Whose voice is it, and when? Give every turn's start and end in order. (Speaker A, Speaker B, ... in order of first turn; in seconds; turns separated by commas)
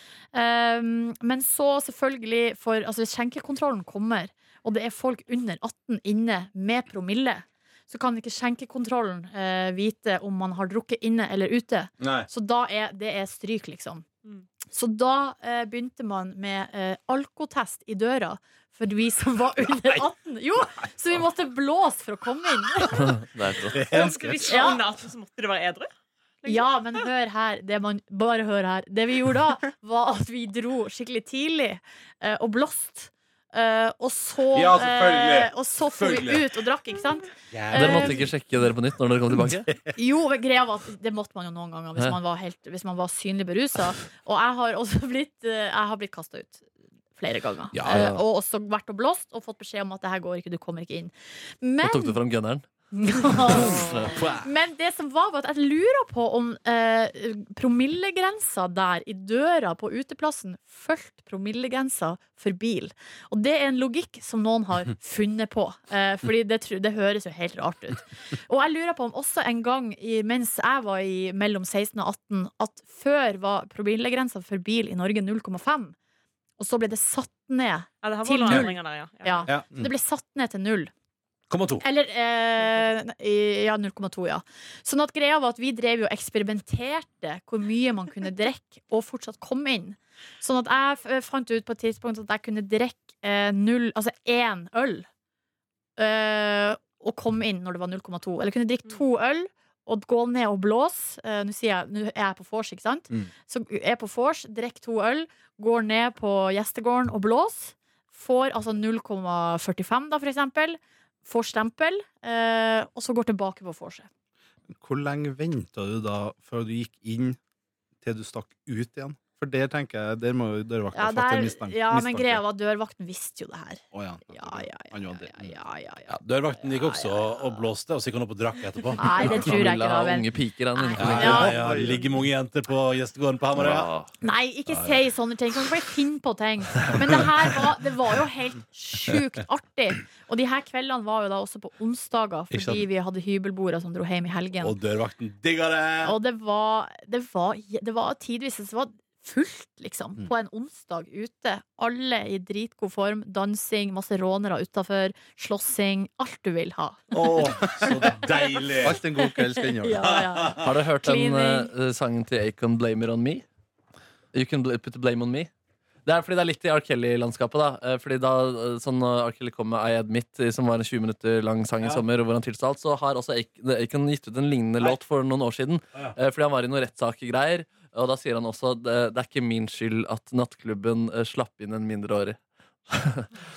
Speaker A: 0.3-14.1, Speaker B: 12.0-12.3, Speaker A: 14.7-23.2, Speaker C: 23.0-23.8, Speaker D: 23.9-25.9, Speaker A: 23.9-24.9, Speaker D: 26.4-27.0, Speaker A: 26.4-38.3, Speaker B: 34.5-36.5, Speaker B: 37.5-38.3, Speaker C: 37.7-39.7, Speaker B: 39.4-39.9, Speaker A: 39.9-52.2, Speaker B: 47.7-48.2, Speaker C: 51.8-52.6, Speaker A: 52.9-75.9, Speaker C: 53.5-54.1, Speaker B: 54.1-54.5, Speaker A: 76.6-80.9, Speaker D: 78.0-79.6, Speaker B: 81.5-81.8, Speaker A: 81.8-95.1, Speaker D: 82.6-82.9, Speaker A: 96.0-114.1, Speaker E: 114.7-117.4, Speaker E: 118.0-122.4, Speaker A: 120.9-127.6, Speaker E: 123.9-125.5, Speaker B: 126.1-129.4, Speaker A: 128.9-131.8, Speaker C: 129.1-131.6, Speaker B: 131.0-133.9, Speaker E: 131.1-132.2, Speaker C: 133.6-134.1, Speaker A: 134.2-144.7, Speaker B: 134.7-135.0, Speaker B: 142.5-142.8, Speaker B: 144.6-146.2, Speaker A: 146.0-161.7, Speaker B: 157.1-159.0, Speaker E: 158.8-160.2, Speaker B: 160.0-160.6, Speaker C: 160.6-163.4, Speaker C: 164.3-165.5, Speaker C: 166.0-183.3